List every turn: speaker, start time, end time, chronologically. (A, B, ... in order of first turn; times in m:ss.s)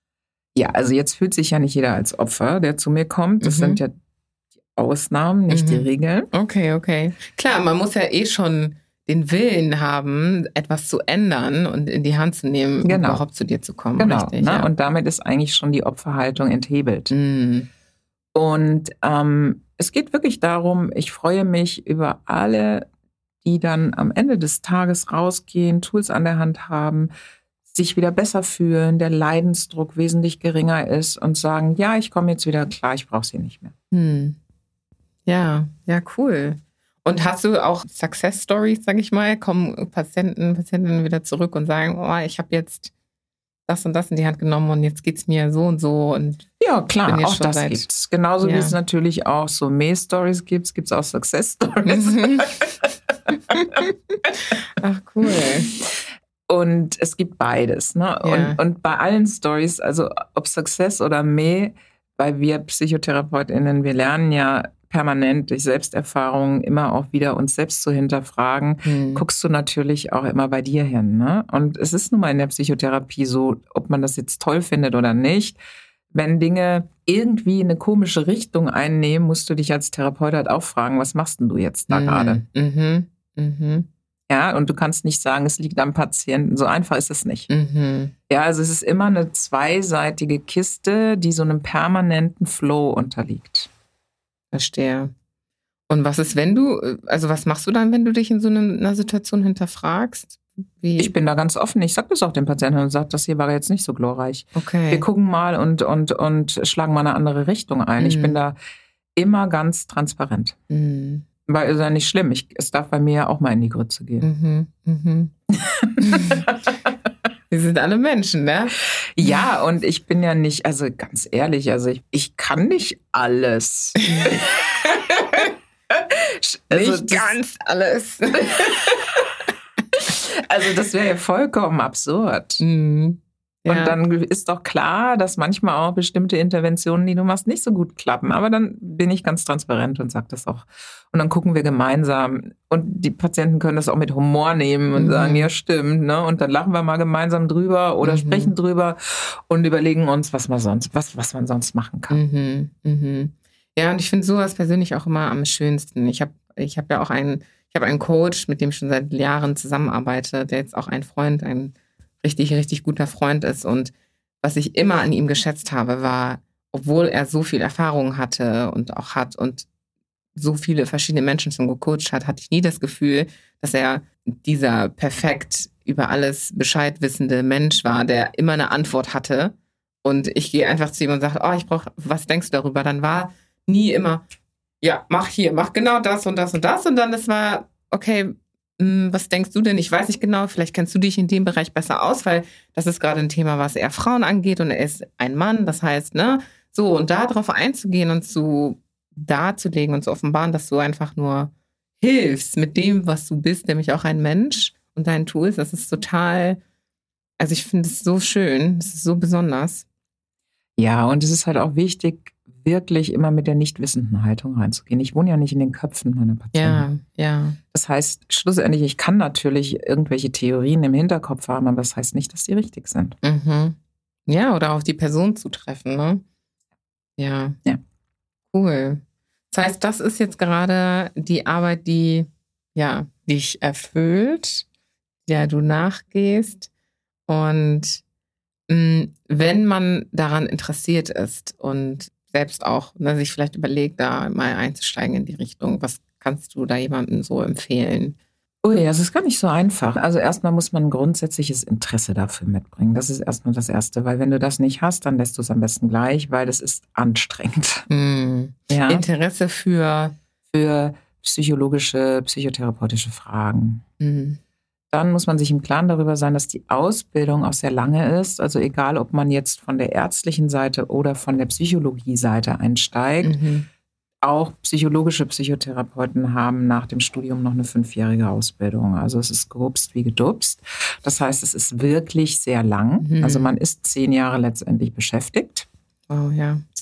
0:00.5-0:03.9 A
0:03.4-0:03.8 B
0:04.7-0:06.3 A
0:05.5-0:14.7 B
0:12.8-0:13.2 A
0:14.0-0:17.1 A
0:17.1-0:17.7 B
0:18.3-0:22.9 A
0:23.4-0:27.1 A
0:27.7-0:33.7 A
0:33.9-0:34.4 B
0:35.2-0:42.9 B
0:43.7-0:46.5 B
0:46.6-0:52.8 A
0:47.0-0:47.8 B
0:48.4-0:48.8 B
0:51.9-0:52.6 B
0:53.5-0:53.9 B
0:54.5-0:55.7 B
0:56.5-1:15.6 A
0:58.2-0:58.6 B
1:08.8-1:09.2 B
1:16.1-1:22.4 A
1:21.9-1:23.9 B
1:24.3-1:27.5 A
1:27.5-1:28.1 B
1:28.3-1:33.7 A
1:34.5-1:35.1 B
1:35.9-1:41.1 B
1:41.0-1:48.6 A
1:44.6-1:45.0 B
1:48.0-1:48.4 B
1:49.2-1:50.6 A
1:50.7-1:51.3 B
1:51.4-1:54.3 A
1:54.2-1:55.3 B
1:55.6-1:56.7 A
1:56.0-1:56.5 B
1:57.5-1:58.7 B
1:59.2-2:04.5 A
2:04.0-2:05.5 B
2:05.9-2:07.4 A
2:06.7-2:09.2 B
2:09.9-2:12.6 A
2:12.6-2:14.0 B
2:13.7-2:32.2 A
2:24.9-2:25.5 B
2:28.0-2:28.6 B
2:32.1-2:49.7 B
2:50.3-3:04.2 B
3:04.8-3:26.6 B
3:27.4-3:29.8 B
3:30.8-3:36.9 A
3:36.5-3:37.6 B
3:37.7-3:43.2 A
3:43.2-3:43.8 B
3:44.3-3:46.2 B
3:47.2-3:47.6 B
3:48.5-3:49.0 B
3:49.5-3:54.6 B
3:55.2-3:56.7 B
3:57.3-3:58.0 B
3:58.7-4:08.2 B
4:08.6-4:17.9 A
4:17.9-4:20.1 B
4:18.7-4:19.0 A
4:20.5-4:23.8 A
4:24.0-4:24.4 B
4:24.9-4:33.4 A
4:33.2-4:33.7 B
4:34.2-4:45.7 A
4:43.0-4:43.6 B
4:46.1-4:46.6 B